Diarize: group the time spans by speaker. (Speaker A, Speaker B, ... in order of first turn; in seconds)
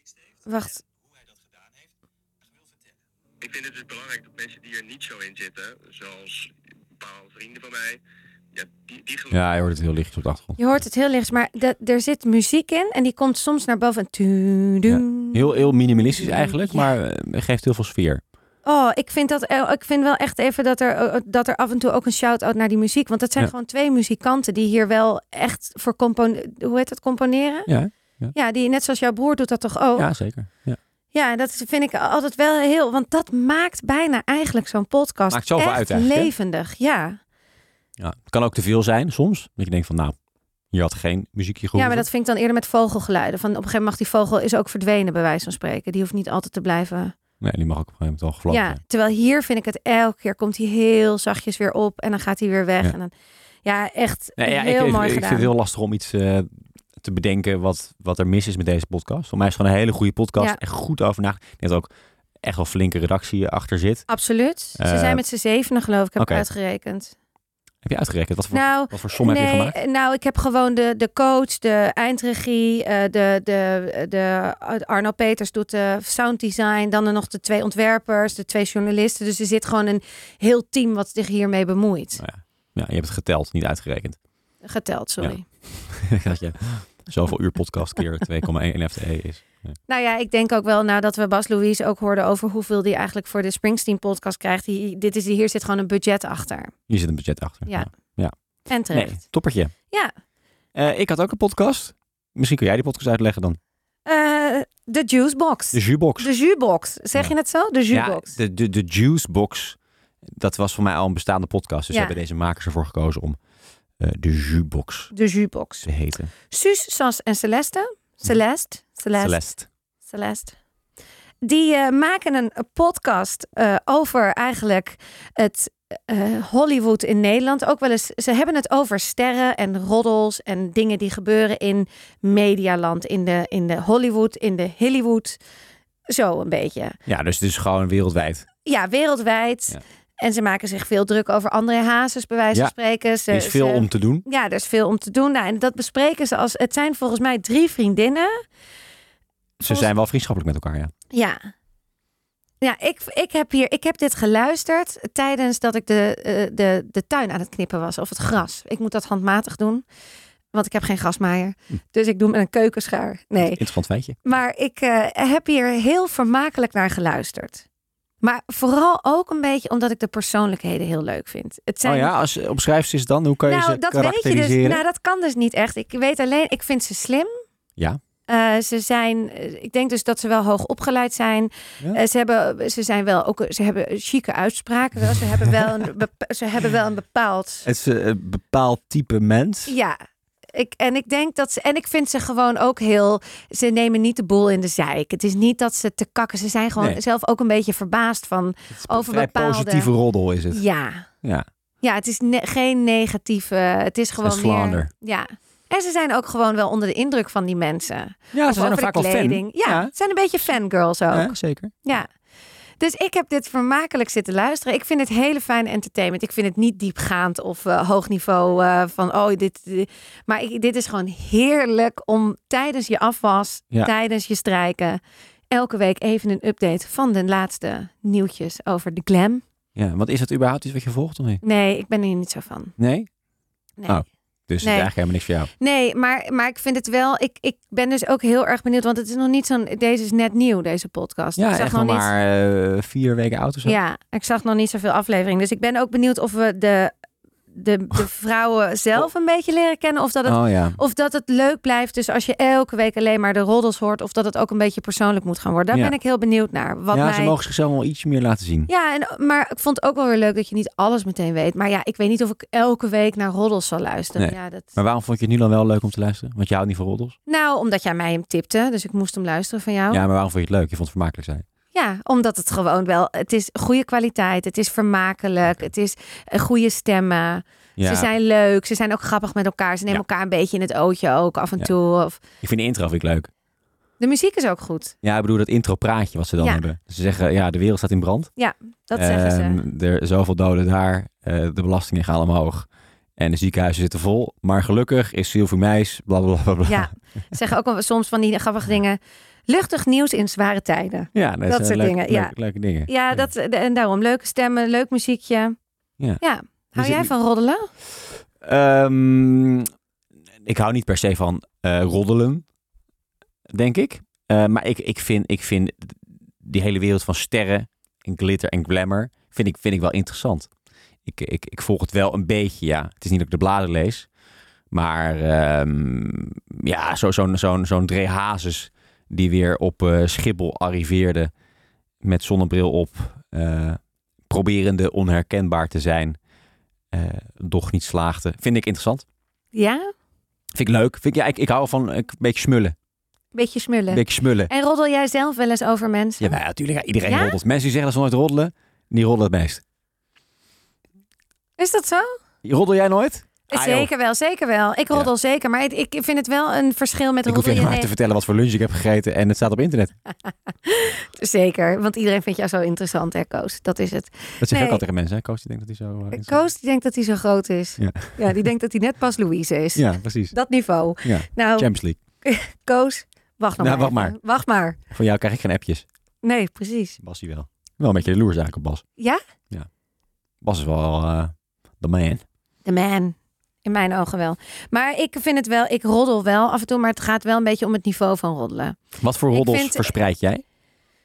Speaker A: 0.5-0.8, 10.6-16.9, 18.6-27.7, 28.3-30.1, 31.1-37.2, 41.8-47.1, 48.5-53.1, 53.6-55.5, 64.1-67.2, 68.5-82.2, 84.6-85.5, 89.9-96.7, 97.7-97.9, 98.7-99.2, 104.1-108.3, 111.9-112.2, 115.1-115.9, 116.5-119.4, 120.1-120.6, 121.4-135.4, 136.1-137.0, 138.7-148.4, 149.7-149.9, 151.1-151.5, 152.6-159.8, 160.5-163.6, 164.2-167.7, 168.2-172.1, 173.5-177.3, 178.3-187.7, 189.7-190.0, 190.5-199.9, 200.5-201.1, 201.8-212.1, 212.8-225.0, 225.5-229.4, 231.4-232.8, 234.6-234.9, 235.6-242.1, 243.6-246.9, 247.5-257.4, 258.7-264.7, 267.3-270.0, 271.7-282.2, 284.0-284.9, 288.4-289.6, 296.7-302.3, 302.9-305.6, 306.2-307.6, 339.5-339.9, 343.3-346.4, 347.1-347.4, 351.6-352.1, 353.5-357.9, 360.5-364.8, 366.1-371.7, 372.2-374.8, 376.2-377.0, 382.6-388.8, 389.3-389.9
Speaker B: 3.4-8.0, 8.5-9.4
Speaker C: 9.3-10.6, 14.9-18.2, 27.7-28.3, 30.0-30.8, 35.3-36.3, 38.0-40.1, 40.7-42.1, 47.4-48.8, 54.4-61.9, 62.4-64.1, 64.8-65.2, 66.2-66.5, 67.8-69.8, 82.2-84.2, 85.2-89.7, 96.9-98.3, 98.9-99.7, 100.8-103.6, 105.7-106.3, 107.9-109.8, 110.3-113.4, 114.0-115.1, 115.8-116.3, 119.2-119.7, 137.1-138.5, 143.3-144.2, 149.6-150.9, 163.4-164.2, 171.8-174.8, 187.7-189.7, 198.8-200.6, 204.2-204.9, 208.3-209.9, 211.1-211.8, 229.8-231.4, 232.8-233.1, 233.9-235.5, 241.4-243.8, 250.3-250.8, 256.9-258.7, 264.2-267.2, 269.9-271.4, 277.8-278.1, 282.4-283.3, 285.0-288.3, 288.9-292.7, 293.2-296.9, 301.1-303.2, 306.8-307.1, 308.4-309.7, 310.4-312.4, 313.5-320.5, 321.1-324.1, 324.7-331.3, 332.0-336.2, 336.9-339.0, 340.6-342.8, 343.9-344.5, 346.2-349.6, 352.4-353.9, 357.3-359.9, 364.4-366.4, 367.8-368.4, 369.8-370.4, 371.0-372.0, 373.6-374.2, 374.9-375.9, 377.0-378.8, 380.4-382.2, 389.0-390.4